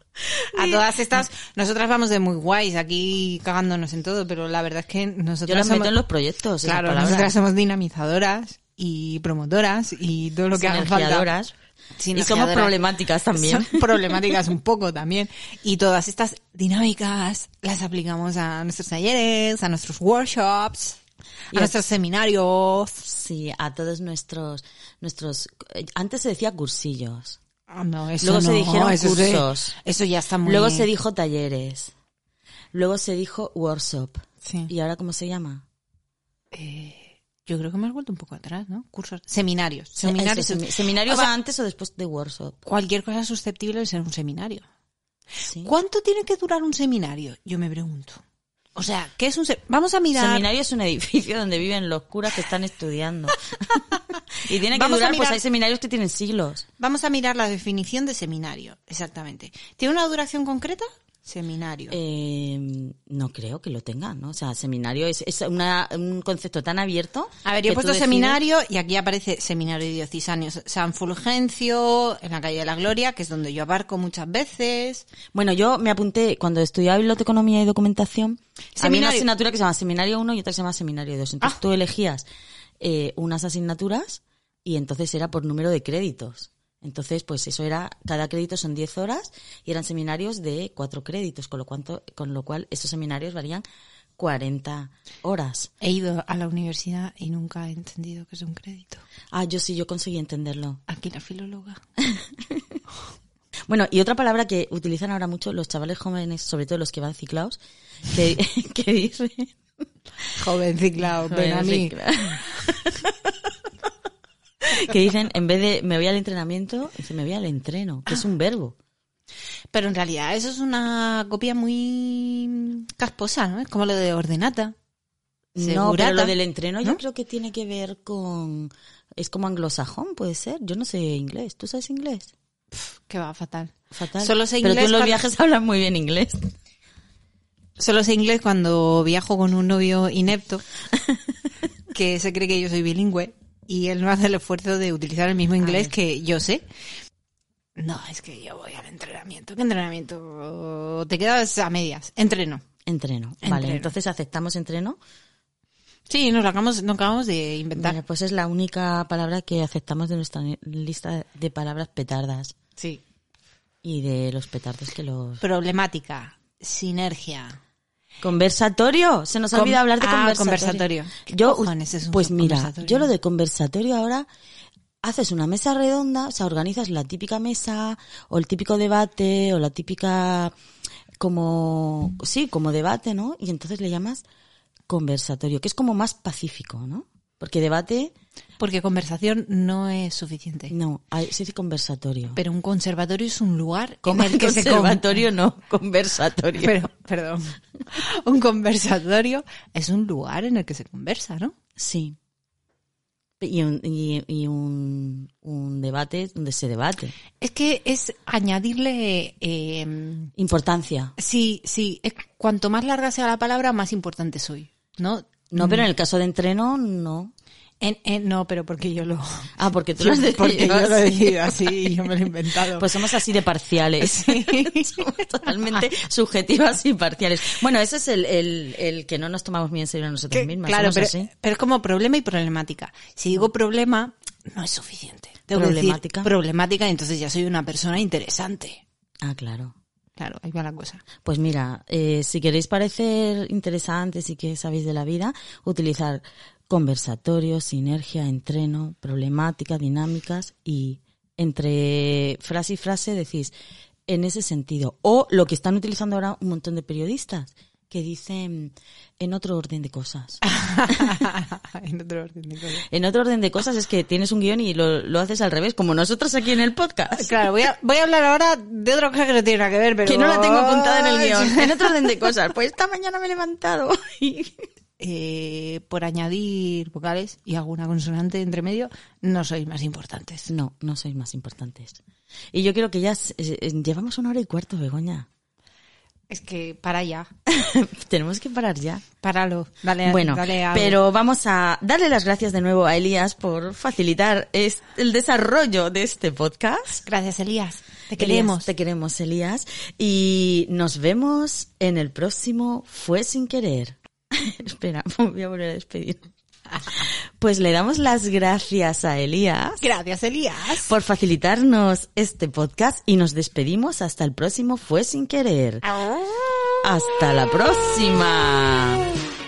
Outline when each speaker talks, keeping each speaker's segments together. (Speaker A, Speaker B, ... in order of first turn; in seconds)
Speaker A: 0.3-0.8, 5.5-7.3, 10.5-11.5, 12.1-14.2, 23.0-27.4, 28.2-29.7, 30.4-31.9, 32.7-35.6, 40.0-42.5, 45.5-45.7, 50.1-53.8, 54.4-56.6, 61.9-68.4, 75.3-82.3, 82.8-93.6, 94.2-95.7, 99.3-100.8, 102.0-102.8, 103.7-107.6, 108.1-109.6, 111.2-113.5, 114.6-118.8, 125.5-132.3, 133.9-136.5, 145.6-145.9, 152.8-155.0, 157.8-162.6, 163.8-165.4, 168.2-174.3, 175.0-180.5, 181.2-184.2, 184.9-188.1, 190.7-192.4, 194.0-196.8, 201.8-202.2, 203.4-207.2, 210.4-211.1, 215.5-217.3, 219.6-221.8, 222.8-231.3, 235.5-236.3, 239.2-239.7, 241.2-253.5, 254.1-260.4, 262.9-267.4, 270.0-274.6, 280.5-282.0, 282.5-285.3, 287.5-289.1, 290.0-297.1, 298.1-306.3, 306.9-309.9, 310.8-315.9, 316.8-319.1
Speaker B: 0.5-6.0, 6.6-11.3, 12.0-12.7, 13.3-21.0, 21.5-23.1, 27.7-30.9, 34.4-34.7, 36.5-41.3, 42.6-44.6, 45.6-48.2, 48.7-50.5, 54.6-55.4, 56.8-62.0, 67.4-75.1, 78.8-79.3, 95.8-99.0, 100.9-101.8, 110.4-112.0, 119.7-124.7, 125.6-127.0, 132.7-135.3, 137.8-140.6, 141.9-146.7, 147.8-152.6, 153.4-153.9, 156.1-158.0, 162.8-163.0, 165.4-167.6, 169.5-173.1, 188.6-190.7, 192.3-195.2, 196.6-201.5, 207.4-210.3, 211.2-215.9, 217.8-222.9, 224.0-225.8, 230.3-238.8, 240.2-241.0, 260.4-262.8, 267.2-272.1, 275.0-280.5, 286.3-287.3, 289.2-291.0, 297.0-298.7, 309.8-310.9, 315.8-316.8